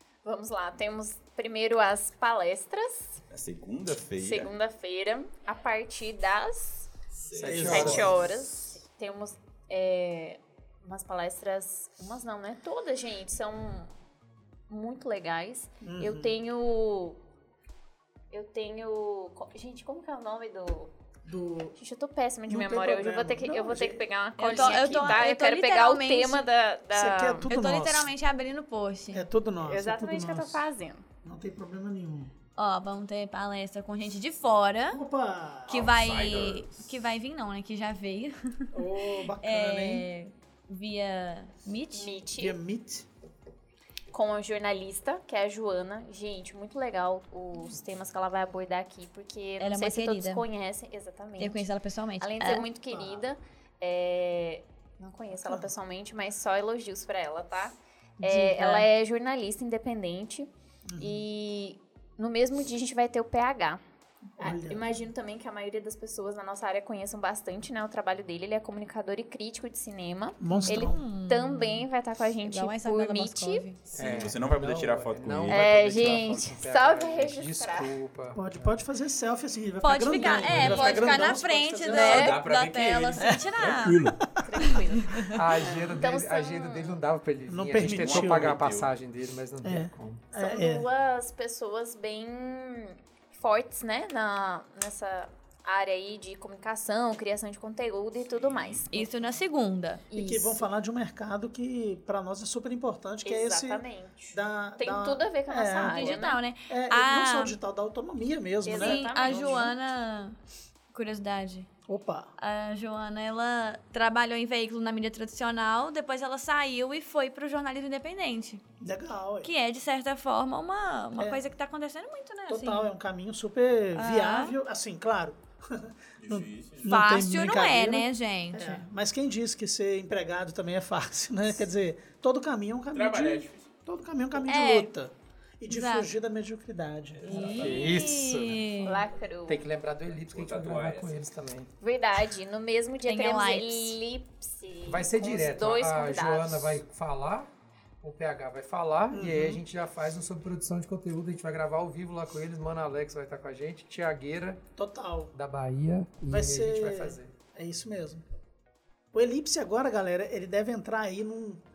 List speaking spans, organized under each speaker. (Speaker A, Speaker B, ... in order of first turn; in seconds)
Speaker A: 0.2-3.2, 4.2-6.9, 7.5-13.9, 14.7-17.2, 18.3-20.9, 21.8-27.5, 29.6-31.0, 41.9-42.6, 44.1-51.6, 52.2-63.8, 64.4-73.7, 75.5-77.9, 80.1-81.3, 81.8-82.4, 84.4-87.0, 90.3-99.1, 100.1-100.6, 103.2-106.4, 108.6-109.7, 138.8-139.6, 141.8-146.8
Speaker B: 3.3-4.5, 7.2-8.1, 35.7-36.9, 73.9-76.3, 82.0-84.2, 87.8-88.9, 98.3-98.8, 126.2-126.9, 132.9-133.7, 137.2-137.8, 140.3-141.3
Speaker C: 7.3-8.1, 73.9-78.8, 85.3-90.2, 137.3-138.8, 139.4-141.7, 144.8-147.5, 148.0-154.6, 155.3-157.3
Speaker D: 7.4-8.3, 15.8-16.3, 21.2-21.8, 22.5-24.0, 26.9-28.1, 29.1-30.6, 31.2-32.3, 34.9-35.8, 38.7-40.1, 42.3-43.0, 52.9-53.2, 55.4-55.7, 60.9-61.2, 64.3-65.0, 70.4-71.0, 78.3-82.3, 83.2-83.6, 85.6-85.9, 87.5-88.5, 89.6-90.8, 100.1-109.7, 111.9-112.3, 118.8-119.5, 121.2-121.4, 122.5-137.7, 149.1-149.6, 154.8-155.3, 156.3-158.2, 159.1-161.6
Speaker E: 24.4-26.4, 27.5-29.2, 32.5-35.0, 35.7-38.8, 39.4-42.2, 49.6-50.4, 51.4-52.7, 58.2-58.9, 70.5-71.9, 72.4-73.8, 79.8-85.4, 98.9-100.0, 105.8-107.6, 108.7-110.3, 110.9-111.7, 112.4-118.6, 119.4-122.9, 123.9-124.5, 126.8-128.8, 134.4-134.9, 135.7-136.1, 137.2-139.0, 143.0-144.0